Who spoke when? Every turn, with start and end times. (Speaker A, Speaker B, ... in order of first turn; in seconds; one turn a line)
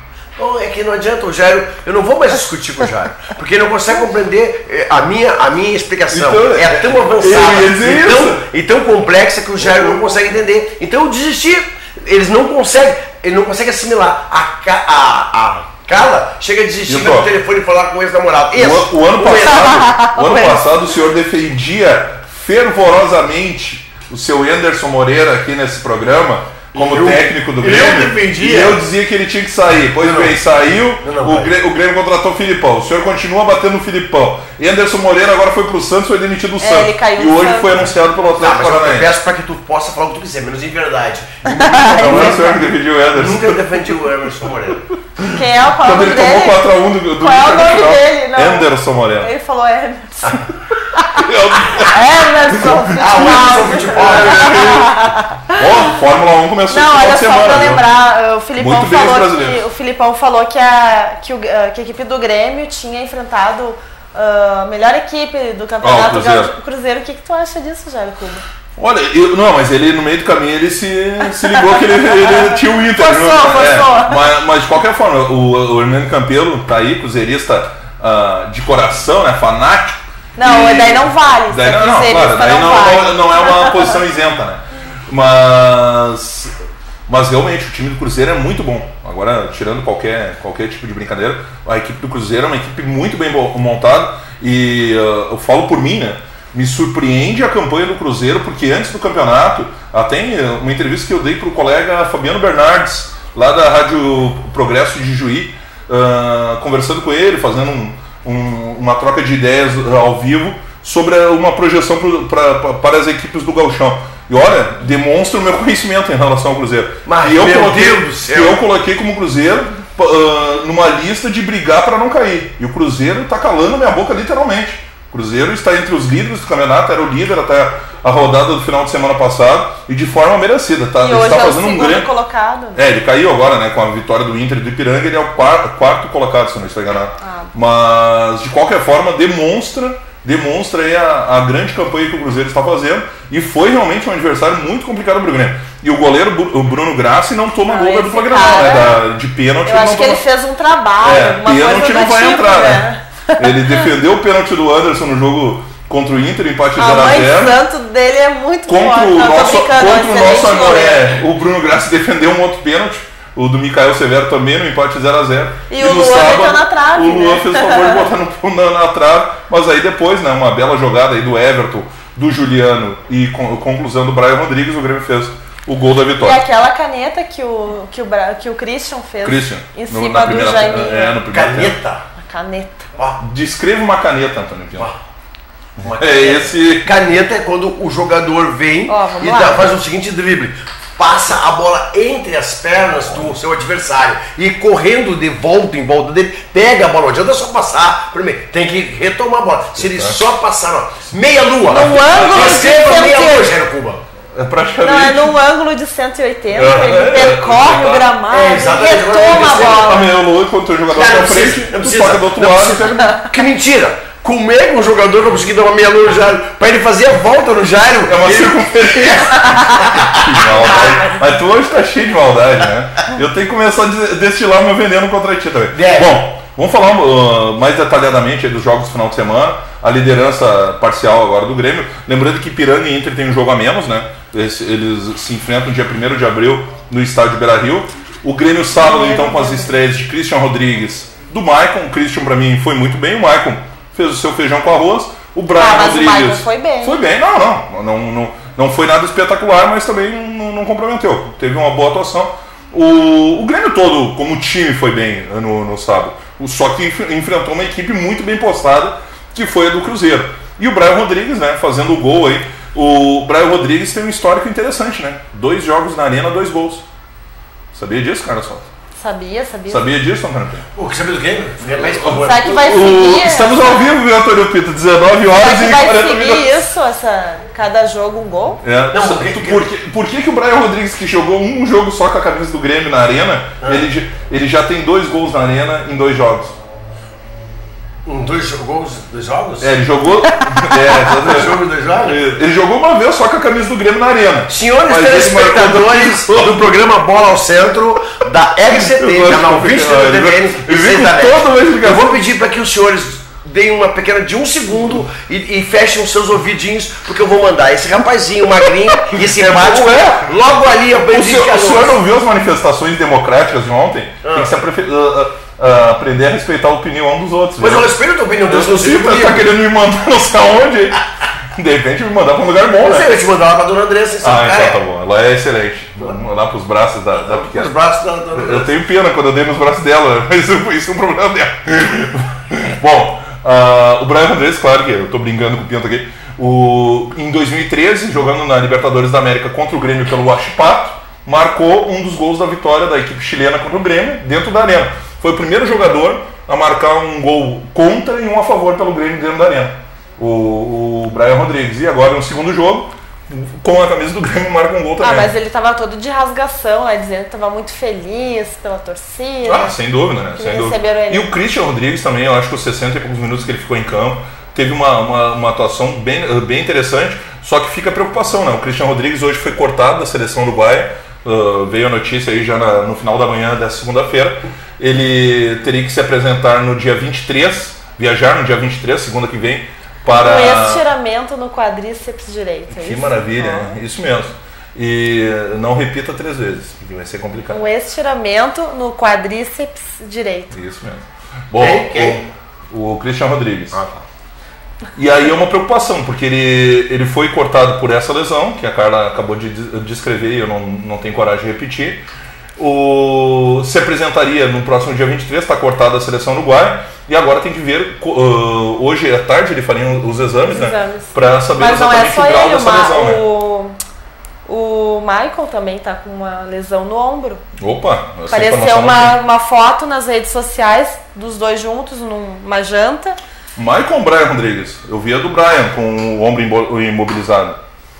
Speaker A: 0.4-19.9
Speaker B: 6.1-8.4
Speaker B: 9.6-10.0
Speaker B: 16.9-17.3
Speaker B: 18.5-39.1
Speaker C: 19.7-20.6
Speaker A: 26.7-28.8
Speaker A: 30.0-30.4
Speaker A: 31.0-31.5
Speaker C: 36.6-37.8
Speaker A: 38.4-44.8
Speaker C: 41.7-42.4
Speaker B: 41.8-43.8
Speaker B: 45.2-49.3
Speaker C: 45.3-46.6
Speaker C: 47.2-50.4
Speaker B: 51.1-51.9
Speaker C: 51.9-55.6
Speaker B: 52.5-54.9
Speaker A: 53.0-54.8
Speaker B: 55.5-57.8
Speaker C: 56.7-68.4
Speaker B: 58.6-59.6
Speaker B: 65.8-66.5
Speaker B: 68.8-86.5
Speaker C: 72.9-74.2
Speaker C: 80.3-83.9
Speaker B: 87.1-132.1
Speaker A: 117.0-118.6
Speaker C: 131.0-132.8
Speaker B: 132.7-150.2
Speaker C: 137.2-137.5
Speaker C: 147.7-149.0
Speaker C: 149.6-153.9
Speaker B: 151.0-152.9
Speaker B: 153.4-157.6
Speaker C: 156.8-161.2
Speaker B: 158.7-176.4
Speaker C: 165.7-168.1
Speaker C: 176.2-181.1
Speaker B: 179.2-181.8
Speaker A: 181.3-182.0
Speaker C: 182.2-182.9
Speaker B: 183.2-184.9
Speaker A: 185.8-204.0
Speaker B: 186.0-186.9
Speaker C: 188.9-189.7
Speaker B: 199.8-200.2
Speaker C: 201.7-203.5
Speaker B: 201.8-202.6
Speaker B: 204.3-205.4
Speaker C: 204.8-210.1
Speaker B: 206.5-208.1
Speaker A: 208.3-210.0
Speaker B: 209.3-213.0
Speaker A: 210.9-221.2
Speaker B: 218.1-266.8
Speaker A: 225.7-226.2
Speaker C: 238.8-239.7
Speaker C: 245.6-247.0
Speaker B: 267.7-268.7
Speaker C: 268.9-269.8
Speaker B: 269.7-270.6
Speaker A: 270.8-272.8
Speaker B: 271.7-276.6
Speaker C: 272.2-273.8
Speaker C: 275.3-278.6
Speaker B: 278.6-286.6
Speaker A: 278.9-279.6
Speaker A: 288.1-289.7
Speaker B: 289.6-296.7
Speaker A: 291.1-292.3
Speaker A: 294.5-312.0
Speaker B: 298.8-302.2
Speaker B: 309.4-310.0
Speaker B: 311.1-317.9
Speaker A: 314.2-314.5
Speaker A: 317.6-319.5
Speaker B: 318.5-321.0
Speaker B: 321.6-323.1
Speaker A: 322.8-324.8
Speaker B: 324.2-327.7
Speaker A: 327.1-328.7
Speaker B: 328.3-355.3
Speaker C: 355.0-359.7
Speaker B: 359.4-380.8
Speaker C: 360.3-361.3
Speaker C: 380.1-383.8
Speaker B: 382.7-387.6
Speaker C: 387.5-390.5
Speaker B: 390.5-393.8
Speaker A: 391.6-392.2
Speaker A: 393.7-394.0
Speaker B: 394.9-402.0
Speaker B: 402.6-413.2
Speaker C: 410.5-413.8
Speaker C: 414.4-417.4
Speaker B: 417.6-419.2
Speaker C: 418.3-423.2
Speaker B: 423.6-427.6